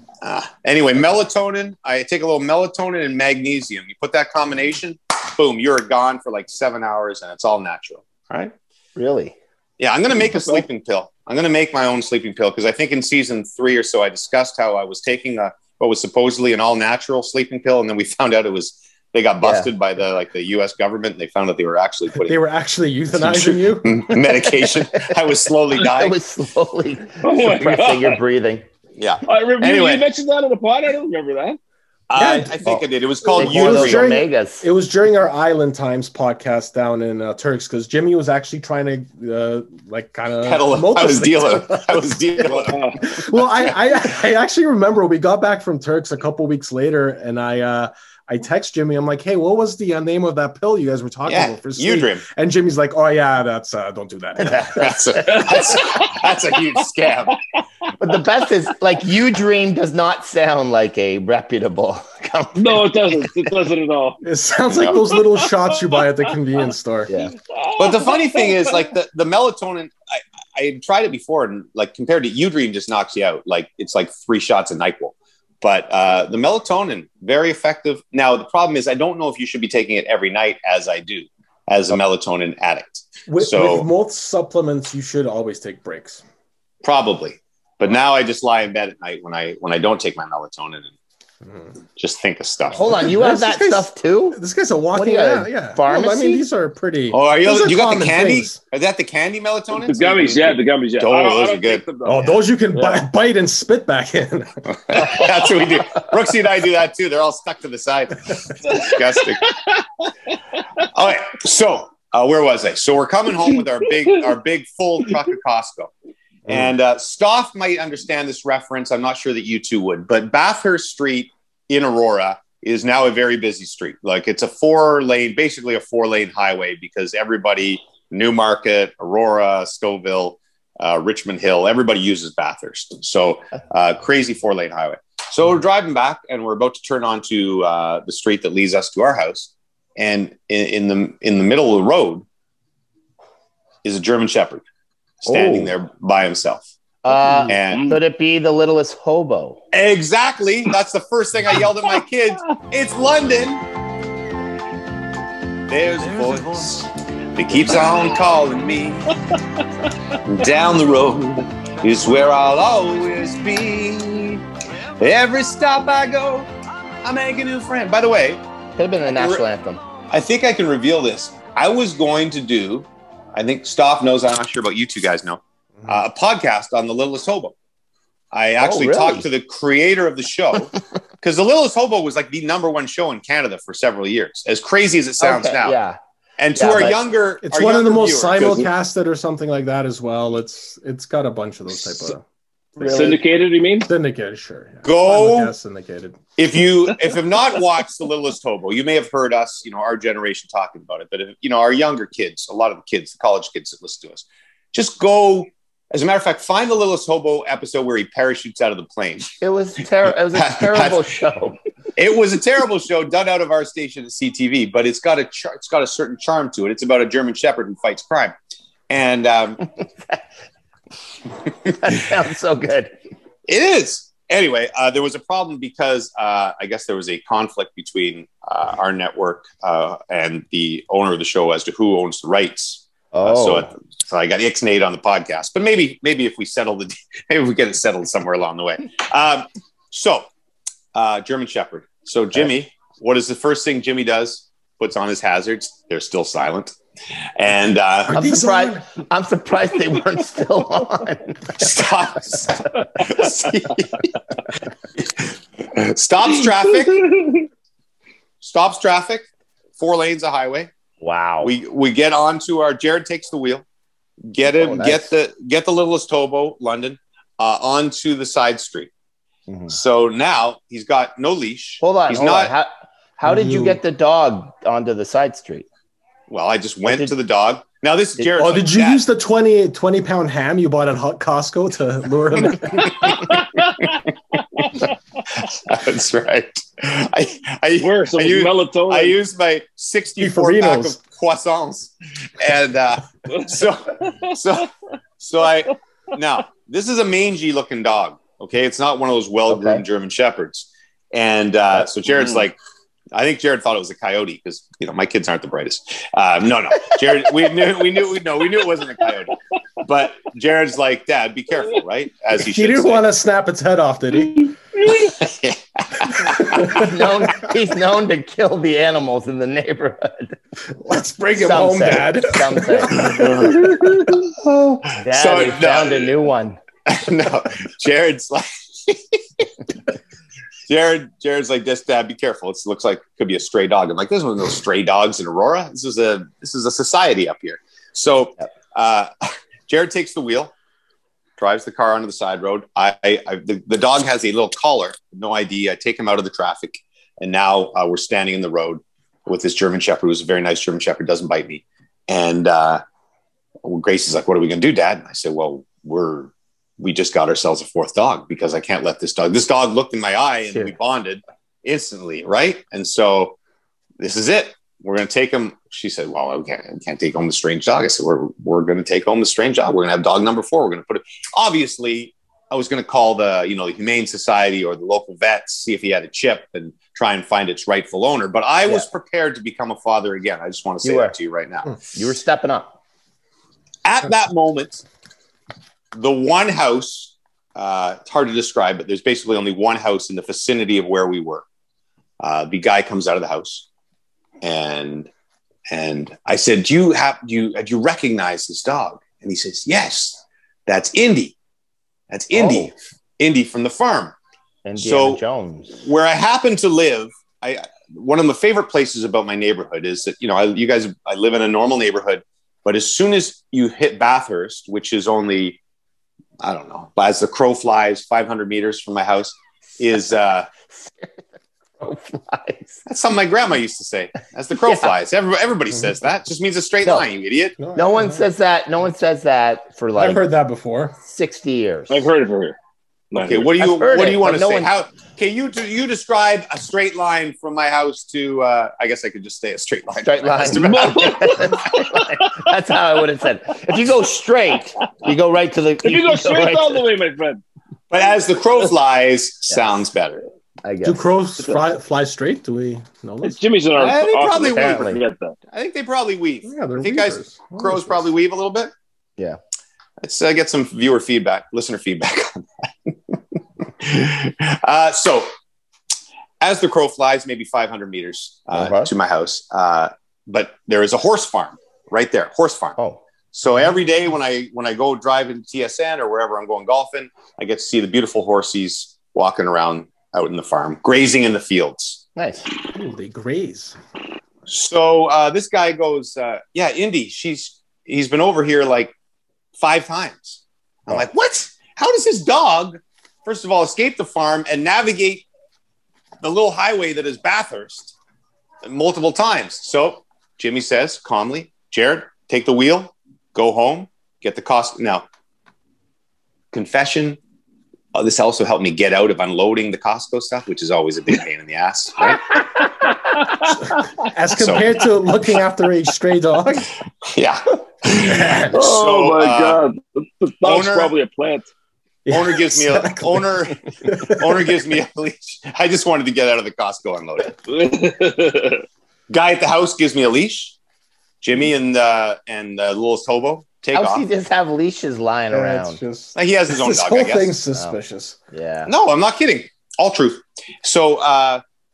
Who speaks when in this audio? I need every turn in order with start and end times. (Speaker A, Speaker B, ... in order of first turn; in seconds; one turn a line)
Speaker A: 0.2-8.5
Speaker B: 9.0-9.4
Speaker A: 9.8-22.4
Speaker C: 10.4-10.6
Speaker B: 19.4-19.7
Speaker D: 22.1-24.2
Speaker A: 23.1-26.2
Speaker B: 25.8-28.6
Speaker C: 27.2-28.2
Speaker A: 29.0-30.1
Speaker C: 29.3-31.6
Speaker A: 32.1-34.1
Speaker D: 32.1-32.6
Speaker B: 32.6-34.7
Speaker D: 33.3-42.4
Speaker A: 40.4-43.0
Speaker C: 42.5-43.0
Speaker D: 43.0-55.0
Speaker A: 51.3-52.2
Speaker A: 54.7-57.4
Speaker B: 58.0-63.2
Speaker C: 62.6-64.2
Speaker D: 64.2-67.1
Speaker A: 64.7-65.0
Speaker C: 67.5-68.7
Speaker A: 67.8-69.9
Speaker A: 70.5-83.9
Speaker D: 83.3-86.2
Speaker A: 86.8-90.9
Speaker A: 92.0-92.9
Speaker B: 92.8-94.4
Speaker D: 93.0-98.6
Speaker B: 94.9-96.5
Speaker A: 97.1-101.8
Speaker C: 99.7-103.0
Speaker D: 102.0-104.6
Speaker A: 104.8-109.5
Speaker A: 110.8-115.9
Speaker A: 116.5-142.2
Speaker A: 143.8-144.6
Speaker A: 145.2-146.7
Speaker B: 145.3-145.7
Speaker B: 147.0-149.6
Speaker C: 147.3-147.8
Speaker A: 147.5-148.0
Speaker A: 149.7-153.6
Speaker A: 155.7-159.2
Speaker A: 160.2-164.4
Speaker A: 165.0-166.5
Speaker A: 167.0-168.4
Speaker B: 168.8-169.8
Speaker A: 169.1-169.4
Speaker A: 170.1-177.6
Speaker A: 178.3-185.8
Speaker B: 178.6-179.3
Speaker B: 185.2-186.0
Speaker A: 186.4-188.7
Speaker B: 186.6-187.0
Speaker D: 187.4-192.2
Speaker D: 192.8-193.2
Speaker B: 192.8-193.2
Speaker C: 192.9-193.9
Speaker D: 193.8-196.2
Speaker A: 194.8-195.5
Speaker A: 196.4-209.4
Speaker B: 209.4-211.6
Speaker A: 210.3-211.1
Speaker A: 212.0-218.3
Speaker A: 218.9-219.7
Speaker B: 221.7-222.9
Speaker A: 223.5-240.3
Speaker B: 233.1-233.7
Speaker A: 240.9-246.8
Speaker A: 247.4-248.3
Speaker D: 248.1-248.8
Speaker B: 248.1-251.6
Speaker A: 251.6-254.2
Speaker A: 255.0-257.3
Speaker A: 258.4-259.3
Speaker A: 259.8-260.7
Speaker B: 261.0-261.5
Speaker A: 261.4-263.6
Speaker A: 264.3-268.9
Speaker B: 264.5-265.1
Speaker B: 269.5-269.7
Speaker A: 269.7-272.5
Speaker B: 271.8-275.7
Speaker D: 273.2-273.8
Speaker A: 276.3-279.0
Speaker B: 276.9-277.1
Speaker D: 278.3-283.1
Speaker A: 282.9-283.2
Speaker A: 285.4-302.6
Speaker C: 287.8-289.2
Speaker D: 290.2-291.0
Speaker B: 299.5-299.8
Speaker A: 303.1-313.1
Speaker D: 312.4-314.6
Speaker A: 314.9-316.7
Speaker D: 316.5-316.9
Speaker B: 316.6-320.4
Speaker D: 320.8-324.0
Speaker B: 321.4-323.1
Speaker A: 323.0-326.1
Speaker B: 325.0-326.6
Speaker A: 326.9-329.5
Speaker A: 330.7-339.1
Speaker A: 339.7-340.5
Speaker A: 341.4-352.8
Speaker A: 353.6-363.4
Speaker B: 360.5-360.8
Speaker A: 364.0-381.8
Speaker B: 380.8-381.1
Speaker B: 381.9-382.8
Speaker A: 383.9-384.8
Speaker A: 385.9-391.4
Speaker A: 392.2-393.7
Speaker A: 394.4-395.1
Speaker A: 395.7-401.4
Speaker A: 402.1-404.2
Speaker B: 402.3-402.7
Speaker B: 404.6-405.8
Speaker A: 404.8-405.2
Speaker A: 405.8-415.6
Speaker A: 416.4-420.5
Speaker B: 420.7-421.1
Speaker B: 421.8-422.8
Speaker A: 422.9-427.6
Speaker B: 424.6-424.9
Speaker D: 427.6-428.3
Speaker B: 427.8-430.2
Speaker D: 429.9-431.0
Speaker B: 431.1-432.1
Speaker C: 431.9-432.6
Speaker C: 433.1-433.5
Speaker A: 433.2-441.7
Speaker B: 433.5-434.7
Speaker B: 440.0-446.8
Speaker C: 440.5-442.2
Speaker C: 445.8-447.4
Speaker A: 447.9-450.2
Speaker B: 450.6-451.1
Speaker D: 450.8-453.4
Speaker C: 453.2-455.4
Speaker A: 453.7-454.9
Speaker B: 454.4-455.0
Speaker A: 455.5-458.7
Speaker D: 456.4-458.0
Speaker A: 460.0-463.2
Speaker A: 463.8-465.3
Speaker A: 466.4-472.8
Speaker B: 468.5-468.9
Speaker A: 473.3-482.0
Speaker B: 482.2-482.5
Speaker D: 482.7-483.8
Speaker A: 484.5-488.9
Speaker A: 489.6-495.3
Speaker A: 496.2-497.9
Speaker A: 498.6-505.1
Speaker A: 506.5-507.2
Speaker A: 507.9-512.4
Speaker D: 514.0-516.7
Speaker A: 514.4-514.9
Speaker A: 517.1-519.6
Speaker D: 518.0-518.6
Speaker C: 518.5-521.5
Speaker A: 520.4-520.9
Speaker D: 522.1-524.5
Speaker A: 522.1-527.4
Speaker C: 527.5-528.6
Speaker A: 529.1-530.6
Speaker A: 531.2-534.0
Speaker B: 533.7-535.8
Speaker D: 535.3-538.2
Speaker A: 536.1-537.4
Speaker B: 538.3-538.7
Speaker A: 538.7-541.4